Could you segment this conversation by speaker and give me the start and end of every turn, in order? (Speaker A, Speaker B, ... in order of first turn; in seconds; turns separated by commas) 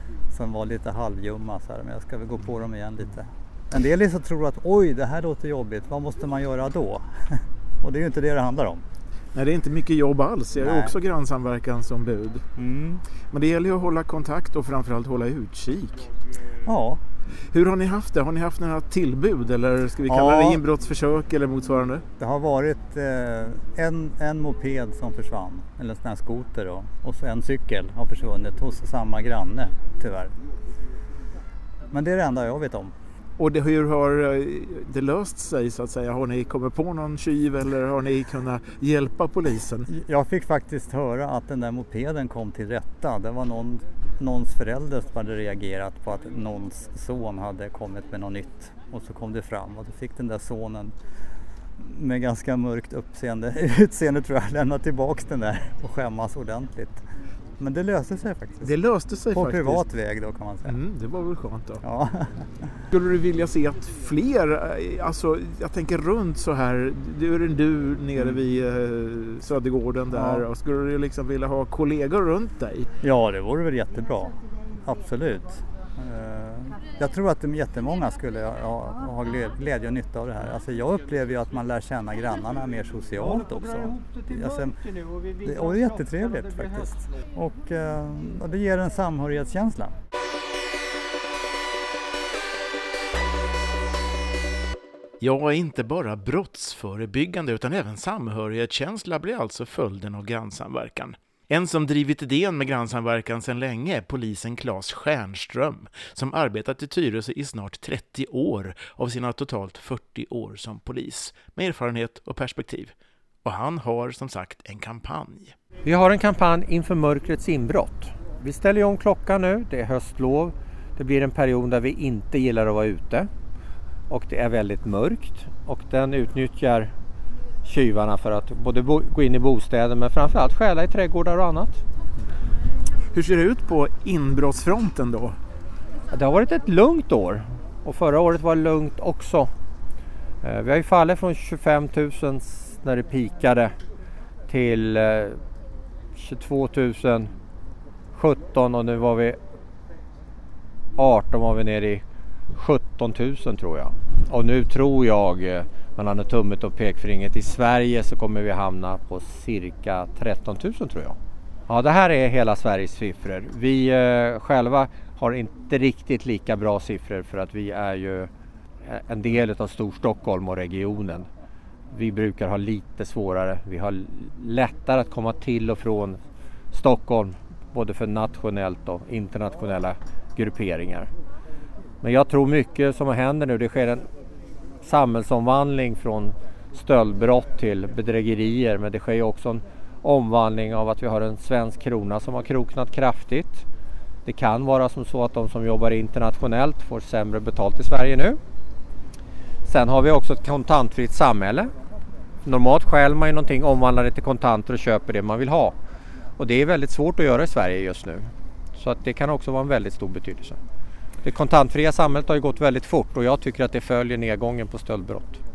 Speaker A: 0.3-8.8, Speaker B: 9.3-12.4, Speaker A: 10.6-10.9, Speaker A: 12.6-13.0, Speaker B: 13.3-16.1, Speaker A: 16.6-17.0, Speaker B: 17.5-22.0, Speaker A: 20.1-20.6, Speaker A: 22.2-30.3, Speaker A: 31.9-32.9, Speaker B: 33.4-39.9, Speaker A: 39.9-51.0, Speaker A: 51.8-57.0, Speaker A: 57.6-58.7, Speaker B: 58.6-59.8, Speaker A: 59.4-60.7, Speaker B: 60.7-61.8, Speaker A: 61.8-62.5, Speaker B: 62.9-72.9, Speaker A: 70.1-70.5, Speaker A: 73.0-84.8, Speaker A: 85.4-90.0, Speaker B: 95.2-112.9, Speaker B: 113.5-115.6, Speaker C: 115.8-123.3, Speaker C: 124.1-126.9, Speaker C: 127.6-131.8, Speaker B: 133.1-135.4, Speaker C: 136.1-139.5, Speaker C: 140.4-143.7, Speaker C: 144.5-145.4, Speaker C: 146.1-147.3, Speaker C: 148.1-149.4, Speaker C: 151.0-152.0, Speaker C: 152.5-161.2, Speaker C: 161.7-168.3, Speaker C: 168.8-171.3, Speaker C: 171.9-176.2, Speaker C: 176.7-181.1, Speaker C: 182.0-184.1, Speaker C: 184.8-193.7, Speaker C: 194.3-198.4, Speaker C: 199.7-201.7, Speaker C: 202.4-205.8, Speaker C: 206.4-210.6, Speaker C: 211.2-215.4